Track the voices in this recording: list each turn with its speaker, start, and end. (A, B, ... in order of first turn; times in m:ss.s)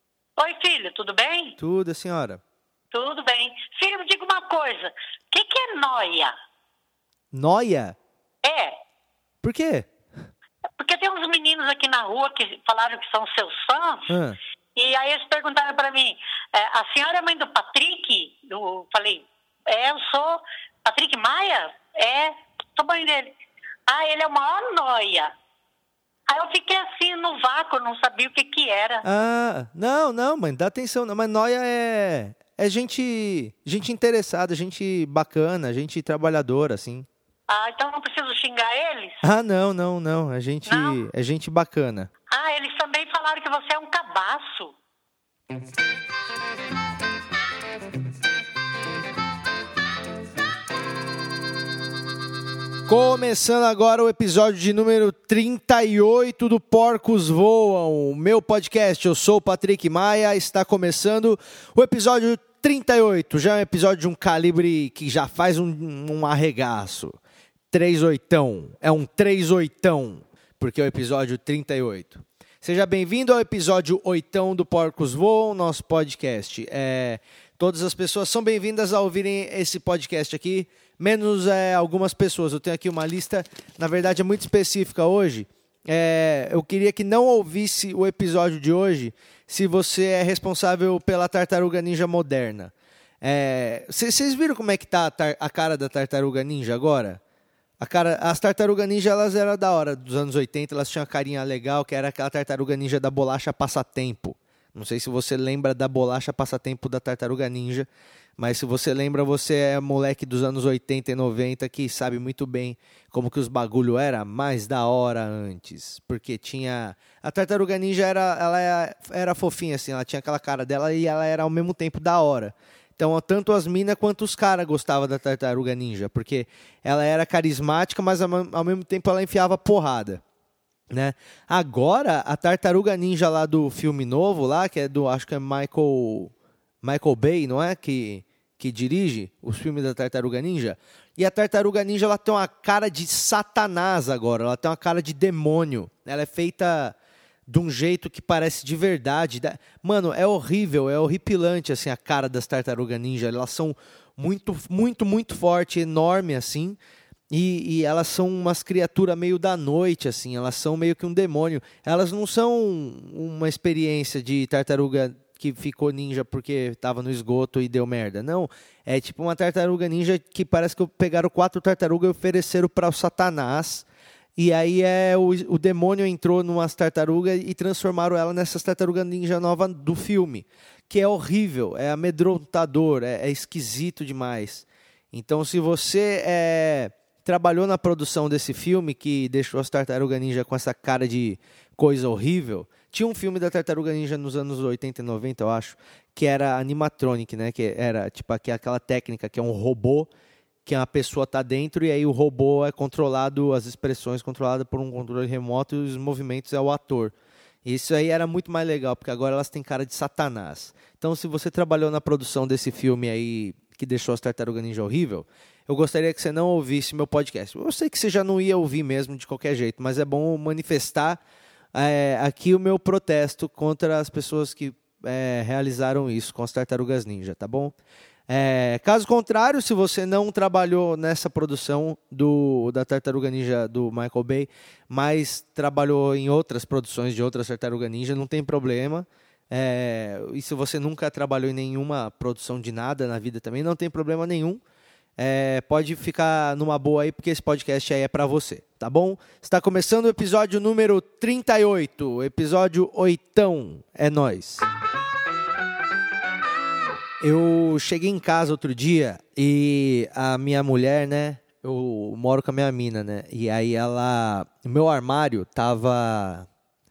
0:00.4-0:01.6 A
0:01.6-0:02.4 B
0:02.9-0:06.3 A
0:07.3-0:08.0 B
0:08.4-0:08.8 A
0:09.4-0:09.9 B
0:10.8-0:14.1 A
0:14.1-0:14.4 B
0:14.8-0:23.3 A
0:23.9-0:25.3 A
0:26.3-0:29.0 A
0:29.0-0:37.1 B
0:37.5-0:39.2 A
0:39.2-0:42.1 B
0:40.6-0:41.0 A
0:42.3-0:44.7 A
0:52.9-1:07.2 B
1:07.7-1:37.2 B
1:37.8-1:47.9 B
1:48.4-2:10.2 B
2:10.9-2:16.3 B
2:16.8-2:26.9 B
2:27.5-2:36.8 B
2:37.3-2:53.8 B
2:54.4-3:20.1 B
3:20.6-3:27.1 B
3:27.6-3:41.2 B
3:41.7-3:47.7 B
3:48.3-4:04.6 B
4:05.2-4:14.6 B
4:17.2-4:26.5 B